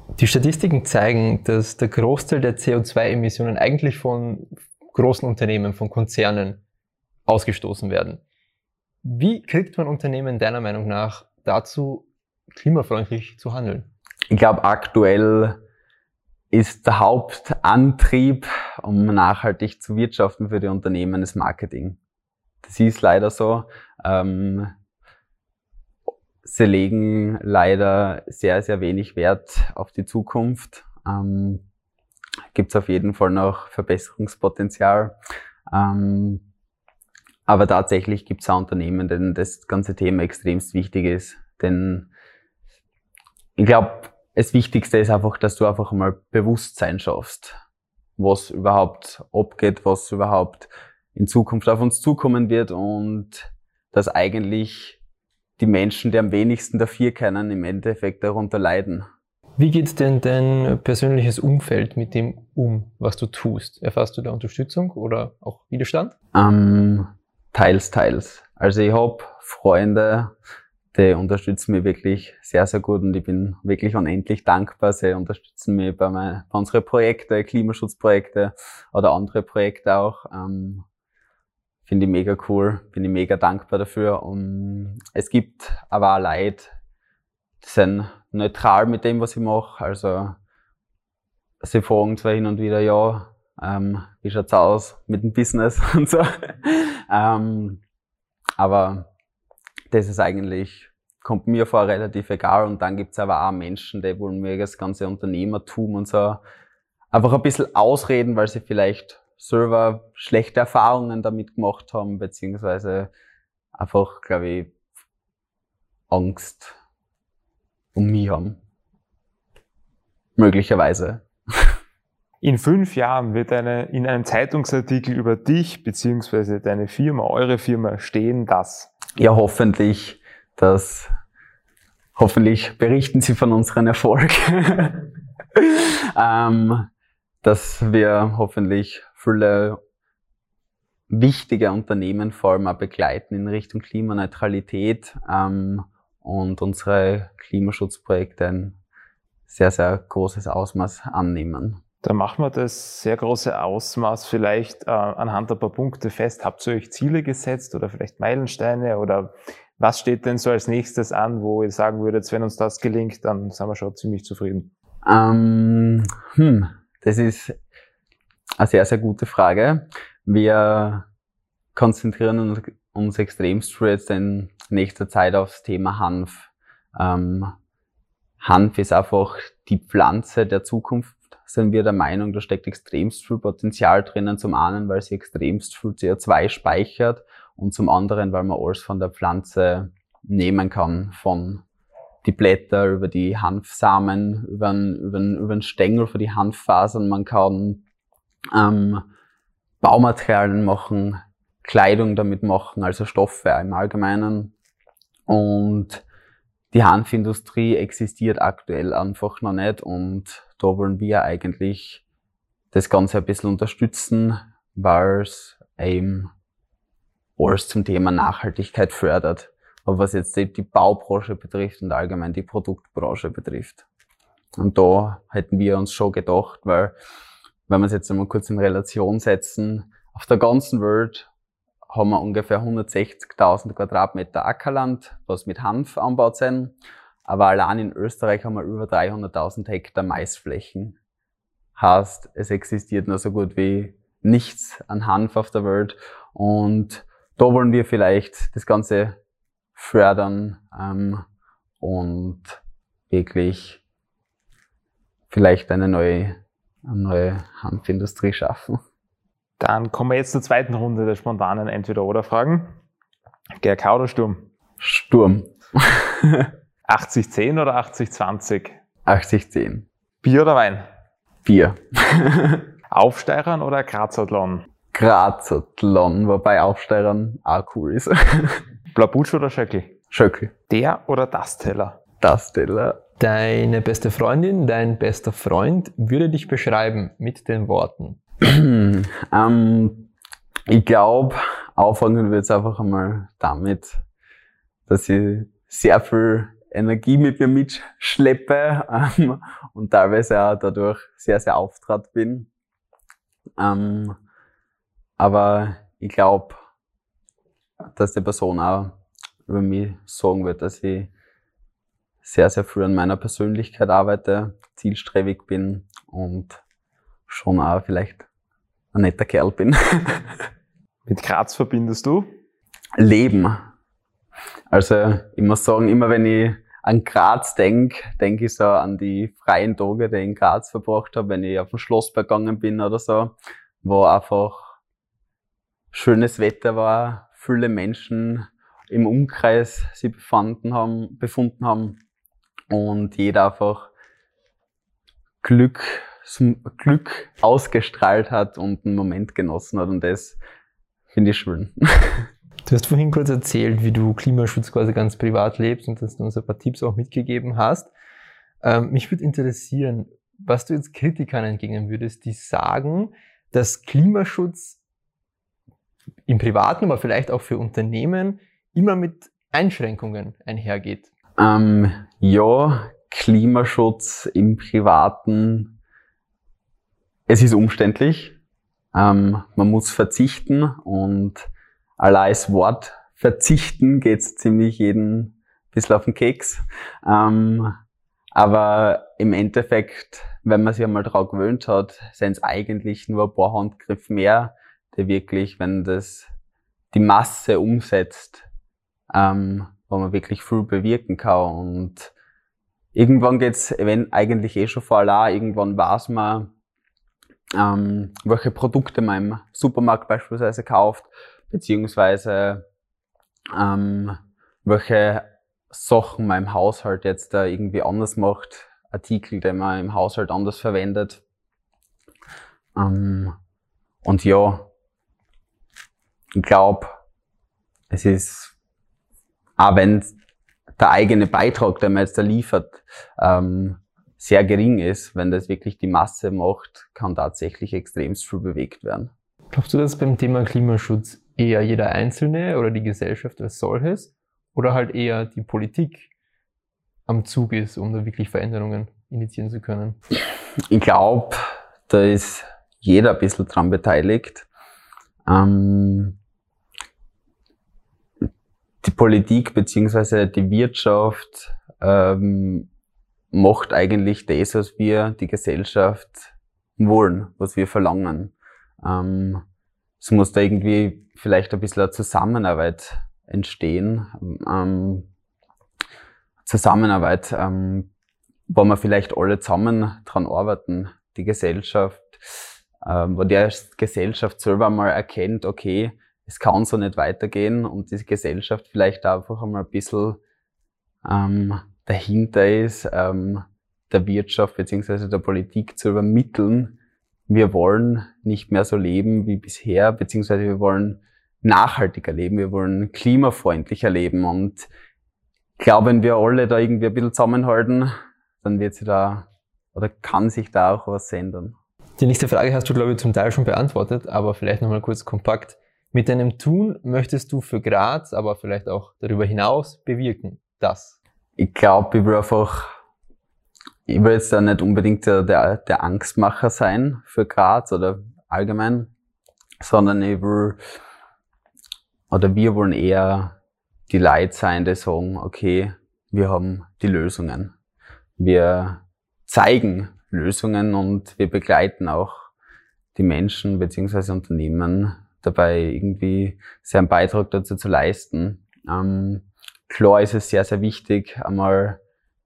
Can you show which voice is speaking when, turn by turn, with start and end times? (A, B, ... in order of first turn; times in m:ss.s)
0:00.2-0:06.6 A
0:07.3-0:08.2 A
0:09.0-0:13.9 A
0:14.3-0:15.6 B
0:16.5-0:22.0 B
0:22.6-0:24.7 B
0:26.4-0:31.6 B
0:32.5-0:35.2 B
0:35.7-0:36.4 B
0:37.5-0:42.1 B
0:43.6-0:47.6 B
0:48.2-0:55.0 B
0:55.6-0:59.1 B
0:59.6-1:06.1 A
1:06.4-1:10.3 B
1:10.9-1:20.8 B
1:21.9-1:26.7 B
1:27.6-1:30.4 B
1:31.6-1:37.8 B
1:38.6-1:39.1 B
1:39.9-1:46.4 B
1:47.1-1:53.1 B
1:53.8-1:54.7 B
1:56.1-1:56.8 B
1:58.0-1:58.6 B
2:00.4-2:01.8 B
2:02.4-2:08.9 C
2:09.2-2:11.1 B
2:12.2-2:16.9 B
2:17.4-2:19.8 B
2:21.1-2:28.8 B
2:29.5-2:31.8 B
2:32.0-2:44.7 C
2:45.0-2:47.6 B
2:48.6-2:51.1 B
2:51.8-2:57.6 B
2:58.4-3:11.6 B
3:12.2-3:17.8 B
3:18.5-3:19.1 B
3:19.8-3:24.5 B
3:25.3-3:26.0 B
3:26.7-3:32.0 B
3:32.7-3:36.3 B
3:37.4-3:43.8 B
3:44.6-3:47.0 B
3:47.7-3:51.3 B
3:51.9-3:56.8 B
3:57.3-4:01.0 B
4:01.8-4:09.2 B
4:09.8-4:11.2 B
4:11.8-4:13.8 B
4:15.3-4:18.8 B
4:19.6-4:22.7 C
4:23.6-4:24.5 C
4:24.8-4:26.5 B
4:26.9-4:28.8 C
4:29.1-4:29.9 B
4:30.2-4:30.9 C
4:31.4-4:32.7 B
4:32.9-4:34.6 C
4:34.9-4:38.6 B
4:38.9-4:40.0 C
4:40.1-4:40.5 B
4:40.7-4:42.0 C
4:42.2-4:43.0 B
4:43.2-4:48.2 A
4:48.4-4:50.1 B
4:50.7-4:54.0 B
4:54.9-5:02.5 B
5:03.6-5:04.2 B
5:05.2-5:06.6 B
5:07.9-5:11.1 B
5:12.2-5:16.6 B
5:17.3-5:18.3 B
5:18.9-5:20.5 B
5:21.1-5:22.3 C
5:23.0-5:23.6 B
5:24.7-5:34.8 B
5:35.9-5:42.0 B
5:42.7-5:43.9 B
5:45.4-5:50.4 B
5:51.1-5:52.3 B
5:52.7-5:57.9 A
5:58.6-6:04.8 A
6:06.3-6:11.1 A
6:11.4-6:15.8 B
6:17.3-6:18.4 B
6:18.9-6:21.5 B
6:22.0-6:27.8 B
6:28.4-6:36.3 B
6:36.9-6:38.5 B
6:39.1-6:42.1 B
6:42.9-6:46.5 B
6:47.6-6:52.6 B
6:53.5-7:01.2 B
7:02.8-7:03.4 B
7:04.0-7:04.7 B
7:06.3-7:07.0 B
7:07.9-7:08.5 B
7:09.6-7:10.1 B
7:10.8-7:19.1 B
7:19.5-7:26.1 A
7:27.1-7:30.0 A
7:30.7-7:34.5 B
7:35.3-7:36.2 B
7:38.8-7:42.7 B
7:43.3-7:49.4 B
7:50.0-7:55.1 B
7:56.4-7:57.9 B
7:58.5-8:10.2 B
8:11.0-8:16.8 B
8:17.3-8:24.7 B
8:25.6-8:31.6 B
8:32.0-8:41.0 A
8:41.4-8:42.7 B
8:43.9-8:48.9 B
8:49.6-8:50.6 B
8:52.1-8:53.4 B
8:53.9-8:57.5 B
8:58.2-9:02.3 B
9:03.0-9:11.8 B